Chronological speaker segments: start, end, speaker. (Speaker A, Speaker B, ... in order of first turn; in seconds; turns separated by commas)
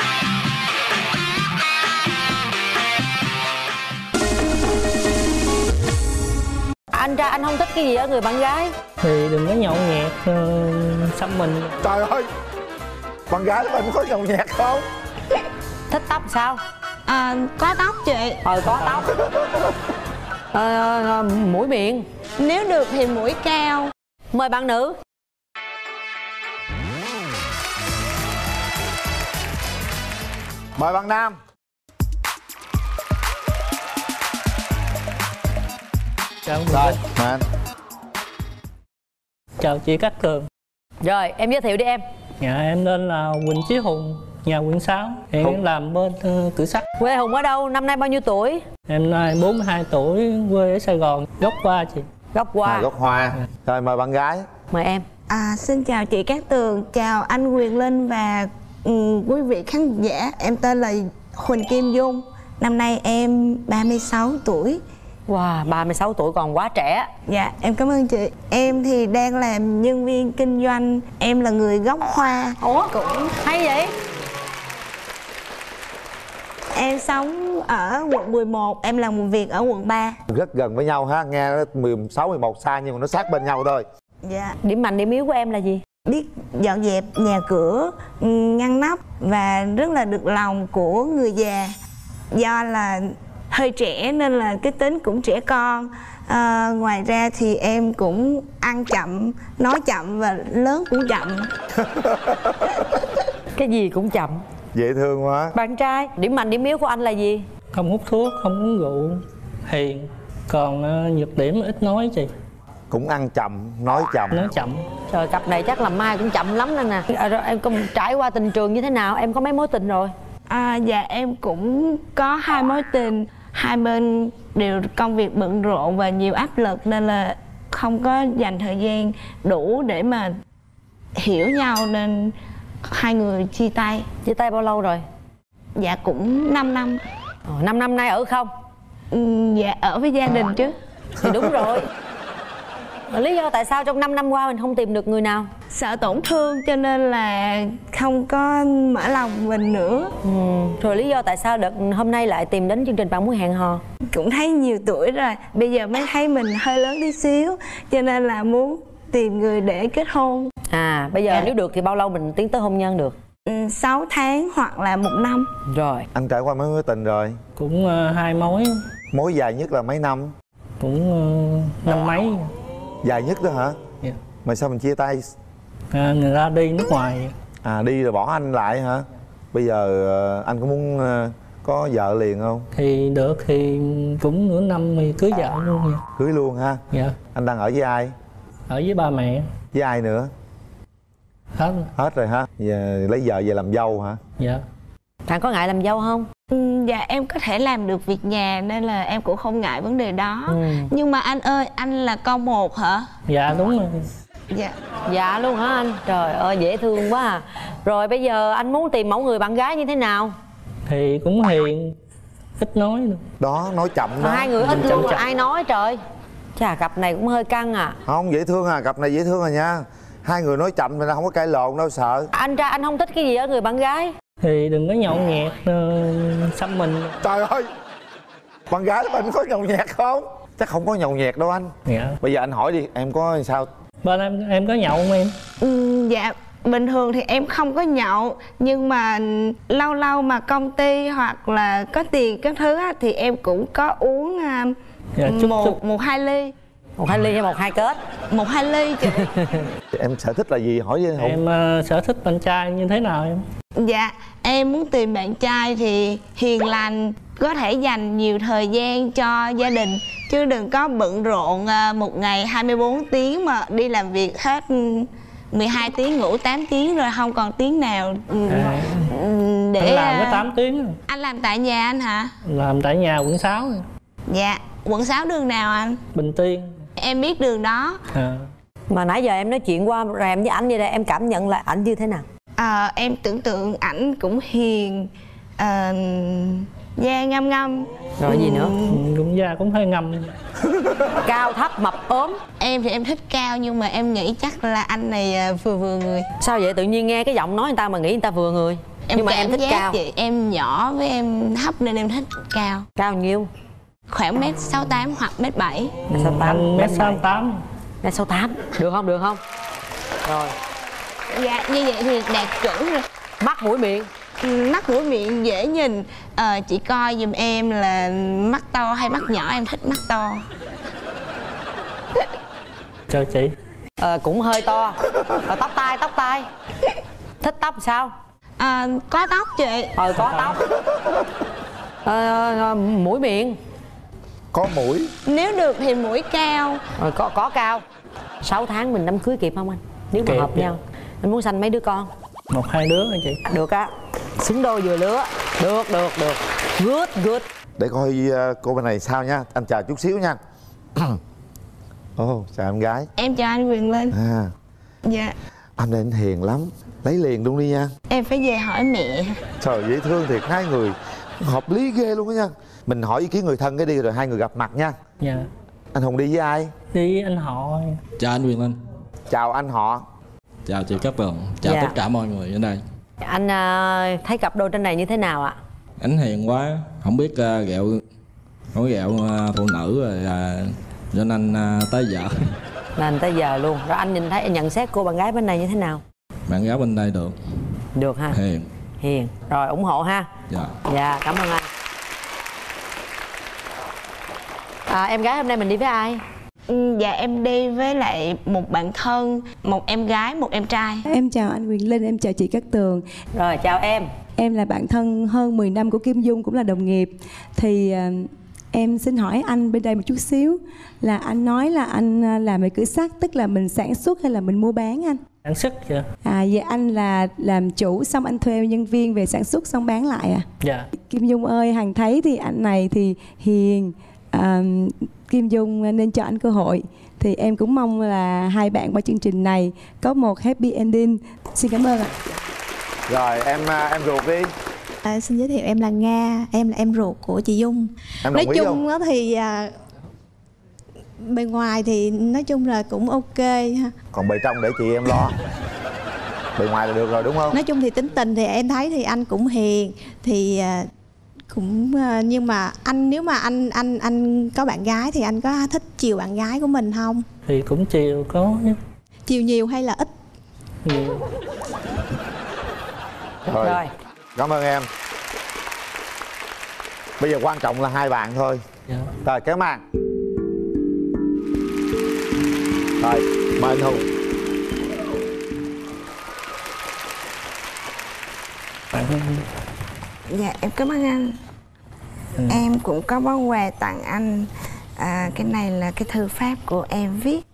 Speaker A: 6.9-8.7, Speaker B: 9.0-11.8, Speaker C: 11.8-12.3, Speaker C: 13.3-14.8, Speaker A: 15.9-16.6, Speaker D: 17.1-18.4, Speaker A: 18.4-19.1, Speaker C: 19.3-19.7, Speaker A: 20.5-22.1, Speaker D: 22.4-23.9, Speaker A: 24.3-25.0, Speaker C: 30.8-31.4, Speaker B: 36.4-37.0, Speaker C: 36.7-37.4, Speaker B: 39.6-40.5, Speaker A: 41.0-42.0, Speaker B: 42.4-46.8, Speaker A: 47.0-48.6, Speaker B: 48.9-52.0, Speaker A: 52.3-52.9, Speaker C: 52.6-54.5, Speaker A: 54.7-55.0, Speaker D: 55.3-64.8, Speaker A: 65.3-67.1, Speaker D: 67.3-73.3, Speaker A: 72.6-73.9, Speaker D: 76.7-80.2, Speaker C: 80.3-83.8, Speaker D: 84.2-84.6, Speaker A: 84.6-85.8, Speaker D: 86.1-91.7, Speaker D: 92.3-101.5, Speaker C: 101.8-102.8, Speaker A: 103.5-104.4, Speaker C: 104.7-105.5, Speaker A: 105.5-107.5, Speaker B: 107.7-112.3, Speaker C: 112.9-114.5, Speaker B: 114.3-114.8, Speaker A: 115.1-120.1, Speaker D: 120.5-130.4, Speaker D: 131.2-132.3, Speaker D: 132.8-134.1, Speaker A: 134.2-135.0, Speaker D: 135.8-137.0, Speaker A: 137.5-138.5, Speaker D: 139.1-140.7, Speaker A: 141.2-141.9, Speaker A: 143.1-145.5, Speaker D: 145.7-150.1, Speaker A: 150.2-153.8, Speaker D: 154.1-160.5, Speaker A: 160.7-163.2, Speaker D: 163.4-165.5, Speaker A: 165.7-166.1, Speaker C: 166.1-167.4, Speaker B: 167.6-168.8, Speaker C: 169.1-170.3, Speaker B: 170.8-172.5, Speaker C: 173.0-173.8, Speaker C: 174.4-175.3, Speaker B: 175.9-177.3, Speaker C: 177.6-182.7, Speaker B: 182.7-186.0, Speaker C: 186.2-186.8, Speaker C: 187.3-188.1, Speaker B: 188.7-189.5, Speaker C: 189.7-190.3, Speaker B: 191.5-191.9, Speaker C: 191.9-194.2, Speaker A: 195.3-196.3, Speaker D: 196.5-203.1, Speaker A: 200.5-200.9, Speaker B: 203.3-204.1, Speaker A: 205.1-210.3, Speaker B: 210.9-211.9, Speaker B: 212.6-213.2, Speaker C: 213.4-215.1, Speaker A: 214.2-216.0, Speaker A: 216.6-218.0, Speaker C: 218.1-222.3, Speaker A: 222.3-224.1, Speaker B: 224.4-227.2, Speaker C: 227.2-227.7, Speaker C: 228.7-233.7, Speaker B: 231.9-232.2, Speaker B: 234.0-235.3, Speaker D: 235.6-246.5, Speaker B: 245.2-245.8, Speaker A: 247.0-248.0, Speaker D: 248.3-249.3, Speaker C: 249.9-251.4, Speaker B: 251.2-253.4, Speaker D: 253.8-270.4, Speaker B: 268.5-269.1, Speaker B: 269.8-271.0, Speaker D: 271.1-272.3, Speaker B: 272.4-273.9, Speaker D: 274.3-276.0, Speaker B: 276.1-276.8, Speaker D: 277.0-278.0, Speaker B: 278.1-278.5, Speaker A: 278.9-282.2, Speaker D: 282.6-289.0, Speaker A: 288.2-288.7, Speaker B: 288.9-290.3, Speaker A: 291.2-292.4, Speaker D: 292.6-296.3, Speaker A: 296.4-299.9, Speaker D: 299.1-302.9, Speaker A: 303.0-303.5, Speaker D: 304.1-306.0, Speaker A: 306.1-307.2, Speaker B: 306.2-307.6, Speaker A: 308.0-309.4, Speaker A: 310.2-310.5, Speaker D: 311.3-313.1, Speaker A: 313.4-314.1, Speaker D: 314.4-320.4, Speaker B: 323.1-323.5, Speaker A: 324.0-326.5, Speaker A: 327.4-328.1, Speaker D: 328.6-329.9, Speaker A: 329.9-330.6, Speaker B: 330.2-330.6, Speaker A: 332.0-333.6, Speaker C: 334.5-335.1, Speaker D: 335.2-336.8, Speaker A: 337.0-337.8, Speaker A: 338.4-342.1, Speaker B: 340.2-340.7, Speaker B: 342.5-343.4, Speaker A: 343.4-347.4, Speaker C: 347.8-350.4, Speaker C: 352.1-353.1, Speaker D: 353.2-354.1, Speaker C: 354.1-354.5, Speaker D: 355.1-355.4, Speaker C: 355.8-357.9, Speaker D: 358.1-359.4, Speaker C: 359.6-365.0, Speaker B: 365.2-365.5, Speaker C: 365.9-366.7, Speaker B: 366.9-368.0, Speaker E: 368.2-368.8, Speaker C: 369.3-370.0, Speaker E: 370.6-372.8, Speaker A: 371.6-371.9, Speaker A: 373.2-375.6, Speaker E: 376.0-378.0, Speaker E: 378.7-382.5, Speaker A: 383.0-386.0, Speaker E: 386.5-387.4, Speaker A: 387.9-388.4, Speaker E: 388.3-388.7, Speaker A: 389.0-390.3, Speaker E: 390.5-390.8, Speaker A: 390.9-391.7, Speaker A: 394.9-396.2, Speaker D: 396.7-401.0, Speaker F: 401.1-403.0, Speaker A: 403.3-404.1, Speaker F: 404.4-415.2, Speaker B: 415.4-416.1, Speaker F: 416.2-420.4, Speaker B: 420.6-420.9, Speaker F: 421.0-432.2, Speaker C: 433.1-434.5, Speaker G: 435.0-439.7, Speaker C: 438.2-438.8, Speaker G: 441.2-443.9, Speaker C: 444.1-445.3, Speaker C: 446.6-447.6, Speaker G: 447.5-450.9, Speaker G: 451.5-457.2, Speaker B: 457.5-458.8, Speaker G: 459.2-460.1, Speaker B: 460.8-461.2, Speaker C: 463.4-463.8, Speaker A: 463.5-463.9, Speaker C: 464.4-464.9, Speaker C: 467.2-468.6, Speaker C: 469.2-469.8, Speaker C: 473.0-474.0, Speaker B: 478.9-479.5, Speaker D: 480.3-481.4, Speaker D: 482.4-487.4